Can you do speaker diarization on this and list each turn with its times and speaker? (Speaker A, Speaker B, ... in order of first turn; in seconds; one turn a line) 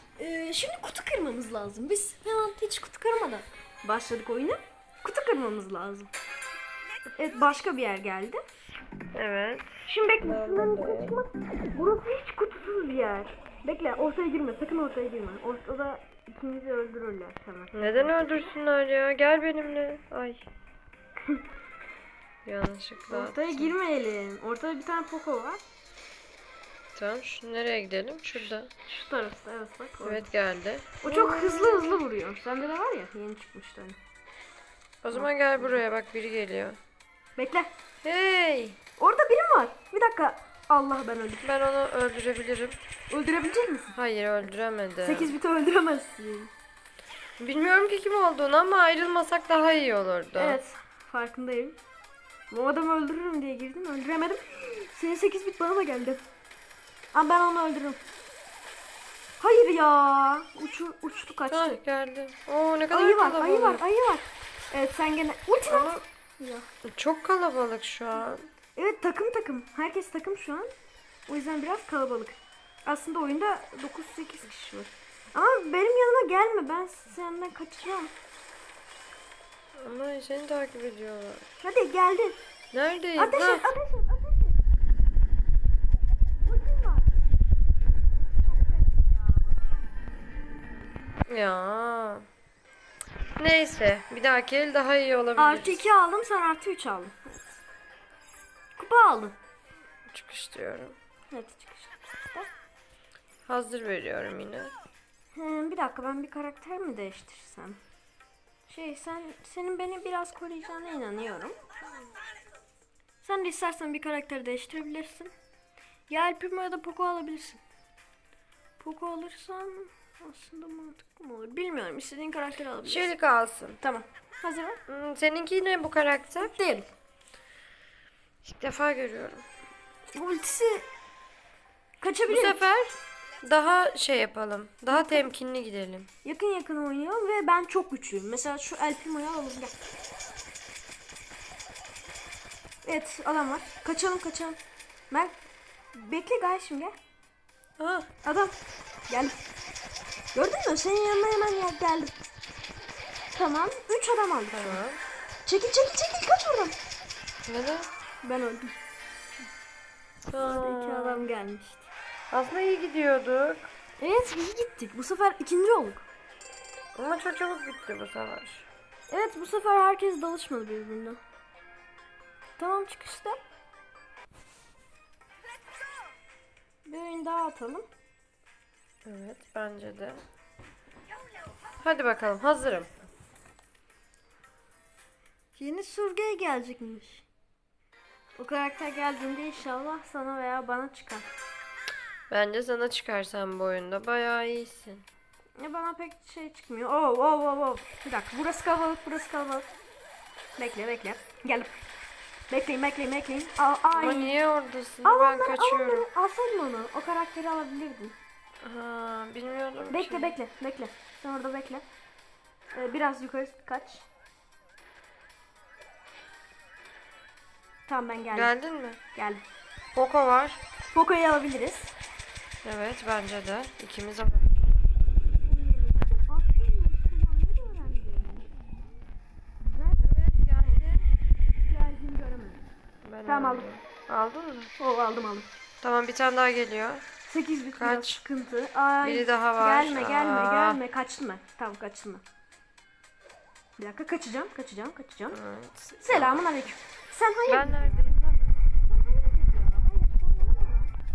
Speaker A: 0.2-6.1
Speaker A: 7.2-8.4
Speaker B: 9.1-11.2
Speaker A: 9.9-18.6
Speaker B: 17.7-20.5
Speaker B: 22.4-23.7
Speaker A: 23.1-25.6
Speaker B: 26.9-28.7
Speaker A: 28.8-30.3
Speaker B: 30.0-32.0
Speaker A: 31.0-34.0
Speaker B: 35.0-36.8
Speaker A: 35.1-35.8
Speaker A: 37.4-37.7
Speaker B: 38.0-38.8
Speaker A: 39.0-41.5
Speaker B: 41.4-42.8
Speaker A: 43.1-44.0
Speaker B: 43.9-45.3
Speaker A: 45.0-46.5
Speaker B: 47.4-50.6
Speaker A: 50.3-51.8
Speaker A: 52.5-56.2
Speaker A: 57.1-58.0
Speaker A: 59.4-61.8
Speaker B: 61.5-63.8
Speaker A: 62.9-66.7
Speaker B: 65.7-66.0
Speaker B: 66.8-68.5
Speaker A: 68.8-70.7
Speaker A: 71.3-78.1
Speaker B: 79.8-81.4
Speaker A: 81.6-82.4
Speaker B: 82.7-83.7
Speaker A: 83.2-84.6
Speaker A: 86.4-87.2
Speaker A: 88.4-89.5
Speaker B: 91.3-92.2
Speaker B: 93.4-95.8
Speaker A: 95.4-97.6
Speaker A: 98.8-99.3
Speaker B: 100.1-101.0
Speaker A: 101.3-102.5
Speaker B: 103.5-104.7
Speaker A: 105.3-107.8
Speaker A: 108.7-111.6
Speaker A: 113.2-115.3
Speaker A: 116.1-117.6
Speaker A: 118.8-123.1
Speaker B: 122.8-123.8
Speaker A: 123.8-124.8
Speaker B: 124.9-126.5
Speaker A: 126.4-126.9
Speaker B: 128.4-129.4
Speaker A: 130.1-130.8
Speaker A: 132.0-132.6
Speaker B: 132.3-136.1
Speaker A: 134.9-135.3
Speaker A: 136.2-139.7
Speaker A: 142.8-144.6
Speaker A: 145.9-146.9
Speaker B: 147.8-148.1
Speaker A: 148.2-148.5
Speaker A: 149.1-149.4
Speaker A: 150.3-152.2
Speaker A: 153.3-154.8
Speaker B: 154.5-155.0
Speaker A: 155.4-156.7
Speaker B: 157.5-157.9
Speaker A: 158.2-158.7
Speaker B: 160.3-161.3
Speaker A: 160.3-161.9
Speaker B: 162.3-163.7
Speaker A: 164.0-166.1
Speaker B: 166.9-168.7
Speaker A: 169.1-171.2
Speaker A: 172.6-173.4
Speaker A: 176.8-177.8
Speaker B: 179.0-180.2
Speaker B: 181.8-182.9
Speaker A: 185.6-187.2
Speaker A: 188.4-191.3
Speaker B: 192.3-195.1
Speaker A: 195.6-199.7
Speaker A: 200.6-201.8
Speaker A: 202.5-204.3
Speaker B: 203.9-206.1
Speaker A: 205.0-208.2
Speaker B: 208.6-210.4
Speaker A: 209.9-211.8
Speaker A: 212.7-214.1
Speaker A: 217.9-218.5
Speaker B: 218.3-219.0
Speaker A: 219.1-219.4
Speaker B: 219.9-220.6
Speaker A: 220.9-221.9
Speaker B: 222.6-224.7
Speaker A: 225.4-228.5
Speaker A: 229.6-230.0
Speaker B: 230.0-231.1
Speaker A: 231.6-232.7
Speaker B: 233.0-234.7
Speaker A: 233.2-233.7
Speaker A: 234.8-235.5
Speaker B: 235.8-237.0
Speaker A: 237.2-242.2
Speaker B: 237.8-238.2
Speaker B: 239.0-240.8
Speaker A: 243.8-245.4
Speaker B: 245.3-246.4
Speaker A: 246.0-248.1
Speaker B: 247.5-248.4
Speaker A: 248.8-250.9